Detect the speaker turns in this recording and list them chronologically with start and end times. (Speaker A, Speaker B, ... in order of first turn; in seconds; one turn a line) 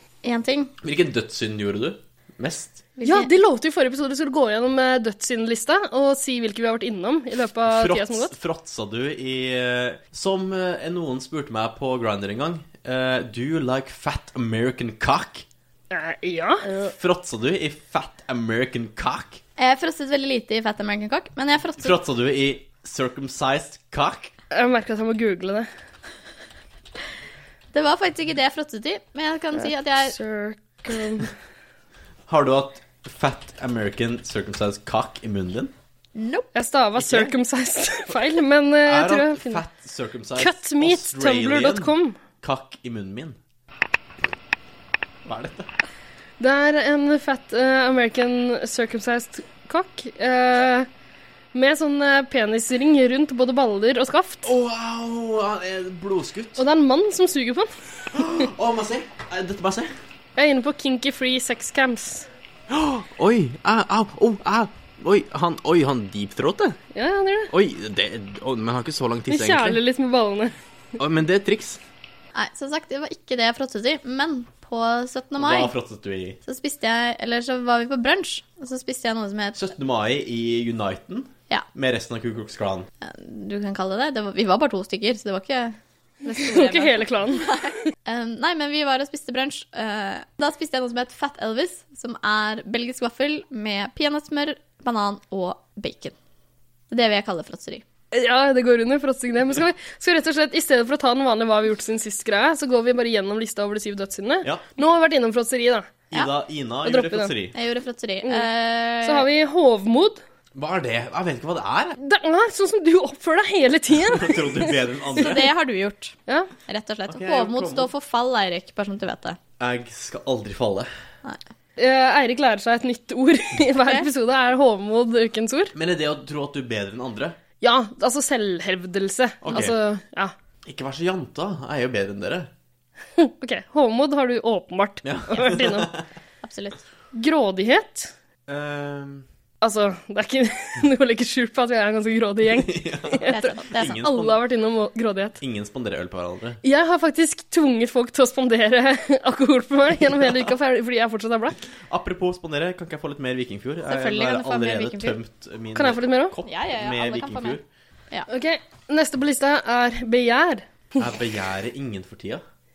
Speaker A: 0.2-0.7
Speaker B: 0.8-2.9
Speaker A: 3.0-3.3
Speaker C: 3.0-8.3
Speaker B: 7.7-15.5
Speaker C: 15.9-16.9
Speaker B: 16.9-19.4
Speaker A: 19.6-21.9
Speaker B: 21.8-24.3
Speaker C: 24.5-25.7
Speaker A: 27.7-30.2
Speaker C: 29.6-31.3
Speaker B: 32.3-35.7
Speaker A: 36.1-36.5
Speaker C: 36.5-39.6
Speaker B: 37.0-37.3
Speaker B: 38.9-43.4
Speaker C: 40.4-42.2
Speaker B: 45.3-45.7
Speaker C: 46.4-50.9
Speaker C: 51.5-54.5
Speaker B: 54.4-56.6
Speaker C: 56.6-58.5
Speaker B: 58.1-59.9
Speaker C: 60.4-62.3
Speaker B: 62.7-66.8
Speaker C: 66.9-67.5
Speaker B: 67.5-69.8
Speaker C: 69.3-70.5
Speaker B: 71.0-71.8
Speaker A: 72.3-75.7
Speaker B: 75.4-76.4
Speaker A: 76.5-79.7
Speaker B: 79.6-82.9
Speaker A: 83.0-96.2
Speaker C: 86.3-87.7
Speaker A: 96.9-97.8
Speaker C: 98.1-106.0
Speaker B: 106.1-107.5
Speaker C: 106.8-107.3
Speaker A: 107.5-109.3
Speaker C: 109.0-110.2
Speaker B: 110.5-112.0
Speaker C: 112.0-114.8
Speaker B: 114.0-115.5
Speaker A: 115.2-116.2
Speaker A: 116.7-119.4
Speaker B: 117.1-117.9
Speaker B: 119.6-120.9
Speaker C: 121.8-125.7
Speaker A: 123.8-124.1
Speaker B: 125.8-127.4
Speaker C: 127.6-130.3
Speaker B: 129.4-129.8
Speaker B: 130.7-132.5
Speaker C: 133.2-135.9
Speaker B: 135.0-136.0
Speaker A: 136.4-136.8
Speaker C: 137.1-138.1
Speaker B: 138.5-139.2
Speaker C: 139.6-145.4
Speaker B: 142.5-144.4
Speaker A: 143.3-144.0
Speaker B: 145.4-146.6
Speaker C: 146.6-151.7
Speaker B: 151.9-157.7
Speaker A: 153.9-155.2
Speaker C: 155.8-156.3
Speaker A: 156.4-158.3
Speaker C: 158.3-161.1
Speaker B: 161.0-162.4